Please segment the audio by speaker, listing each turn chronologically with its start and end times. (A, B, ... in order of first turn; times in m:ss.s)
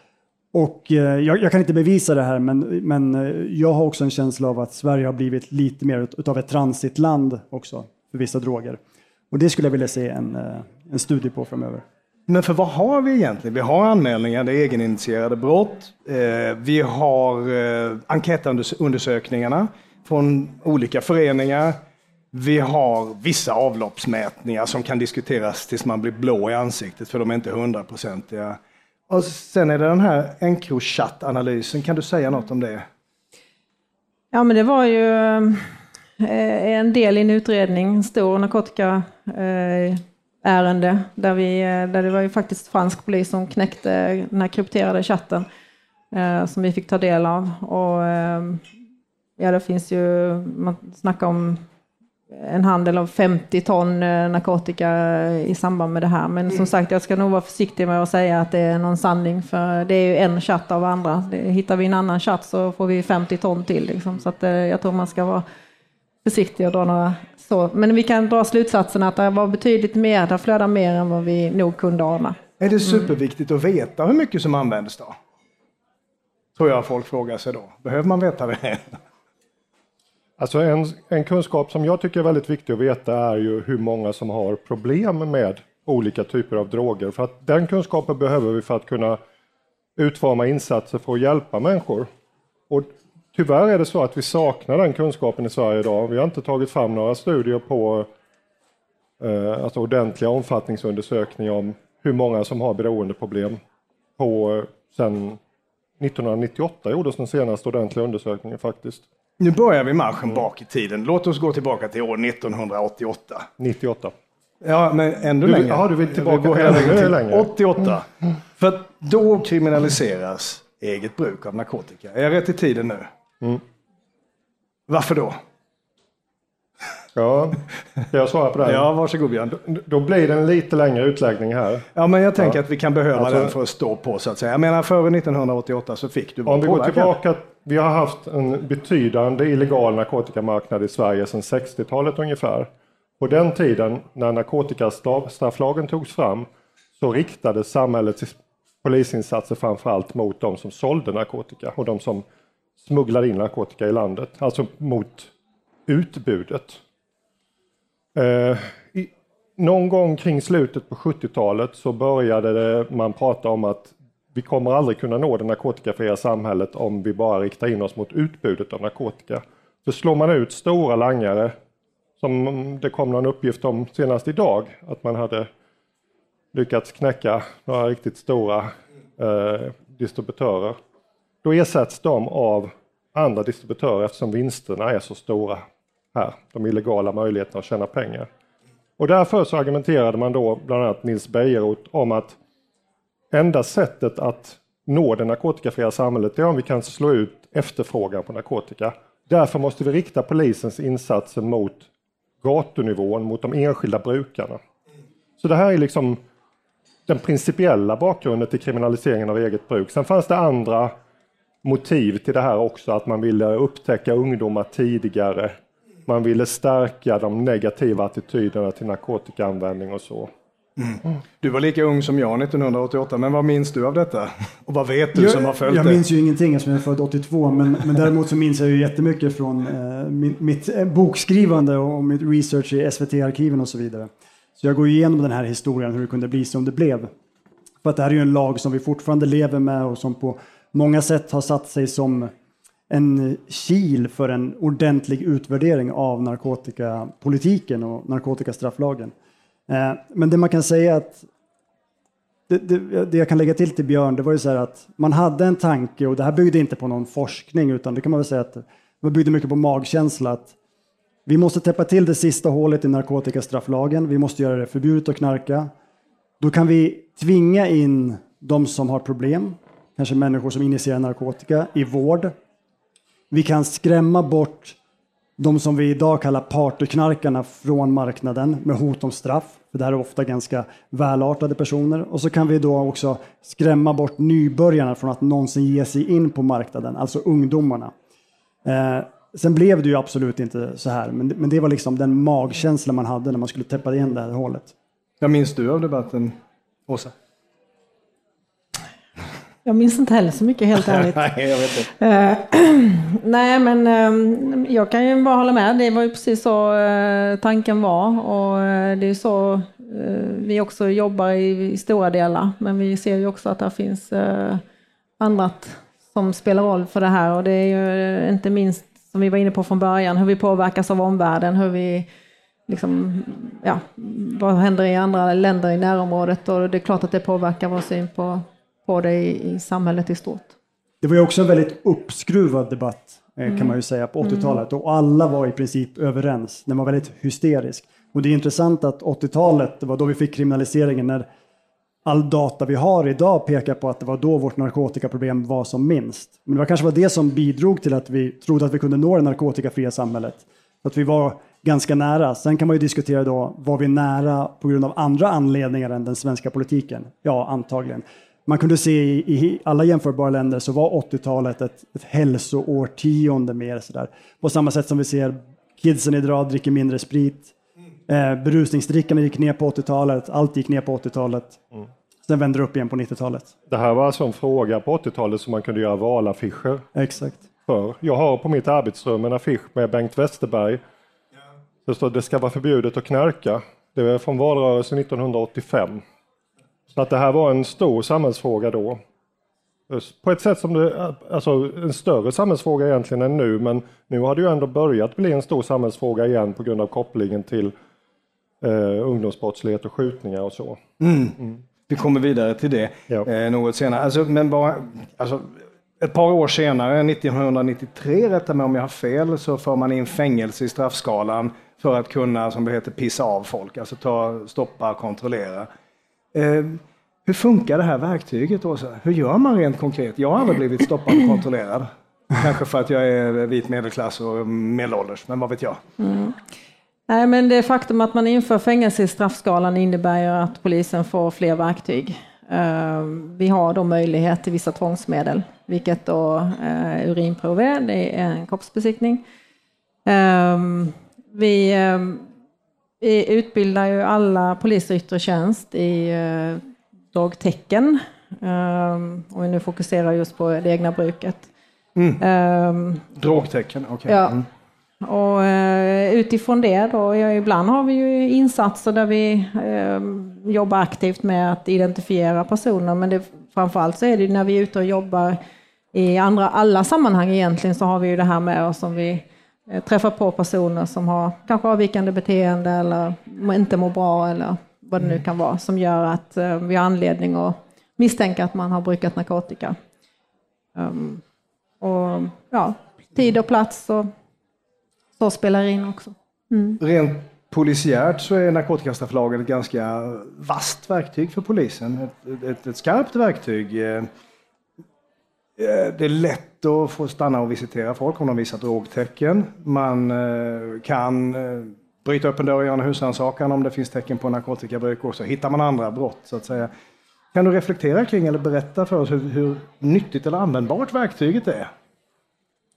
0:00.5-0:08.8 A
0:09.3-0:11.8 A
0:12.3-0:21.8 B
0:22.3-0:28.6 B
0:29.1-0:32.8 B
0:34.3-0:45.5 C
0:46.1-0:48.6 C
0:49.4-0:51.6 C
0:52.3-1:05.4 C
1:06.2-1:12.4 C
1:12.6-1:15.2 B
1:16.6-1:19.0 B
1:20.4-1:29.2 D
1:30.0-1:32.1 D
1:32.7-1:38.1 D
1:39.2-1:43.6 D
1:44.2-1:45.4 D
1:46.0-1:49.0 D
1:49.4-1:53.5 B
1:53.6-1:54.1 D
1:54.6-2:03.1 B
1:55.4-1:57.5 D
2:04.9-2:05.4 B
2:07.2-2:08.9 D
2:08.6-2:09.6 B
2:09.5-2:11.9 D
2:12.0-2:17.1 B
2:13.2-2:13.5 D
2:16.5-2:22.7 D
2:23.2-2:26.5 D
2:27.0-2:32.2 D
2:32.8-2:35.3 D
2:35.9-2:36.8 D
2:38.2-2:51.5 D
2:52.2-2:55.5 D
2:56.5-3:00.8 D
3:01.4-3:08.3 D
3:09.0-3:12.4 D
3:13.3-3:21.9 D
3:22.4-3:24.6 D
3:25.4-3:26.2 D
3:27.1-3:30.9 D
3:31.6-3:40.3 D
3:40.8-3:46.0 B
3:45.1-3:57.1 A
3:57.8-4:02.3 A
4:02.9-4:09.1 A
4:09.7-4:11.3 A
4:12.5-4:20.5 A
4:21.3-4:25.7 A
4:26.4-4:32.4 A
4:33.3-4:34.8 A
4:35.4-4:47.9 A
4:48.6-4:54.7 A
4:55.2-4:56.4 B
4:56.9-4:57.1 B
4:59.6-5:14.6 C
5:01.1-5:01.9 B
5:15.2-5:22.1 C
5:22.7-5:30.5 C
5:31.0-5:41.2 A
5:34.2-5:34.5 C
5:42.0-6:07.5 A
6:08.1-6:11.6 A
6:12.2-6:13.5 A
6:13.7-6:16.9 D
6:17.0-6:17.4 A
6:17.7-6:20.8 D
6:21.8-6:26.0 D
6:26.9-6:29.0 D
6:29.9-6:37.7 D
6:38.6-6:40.8 D
6:41.0-6:41.4 B
6:41.9-6:55.7 B
6:56.3-7:05.8 B
7:06.0-7:06.4 C
7:07.1-7:19.2 C
7:20.1-7:22.3 C
7:23.0-7:26.6 C
7:27.1-7:31.5 C
7:32.0-7:32.2 B
7:32.2-7:33.1 C
7:33.2-7:34.4 B
7:34.1-7:34.4 C
7:35.0-7:45.4 C
7:45.9-7:59.8 C
8:00.8-8:01.2 C
8:01.8-8:04.1 C
8:05.2-8:06.8 C
8:06.8-8:14.1 B
8:15.6-8:26.7 B
8:27.3-8:31.7 B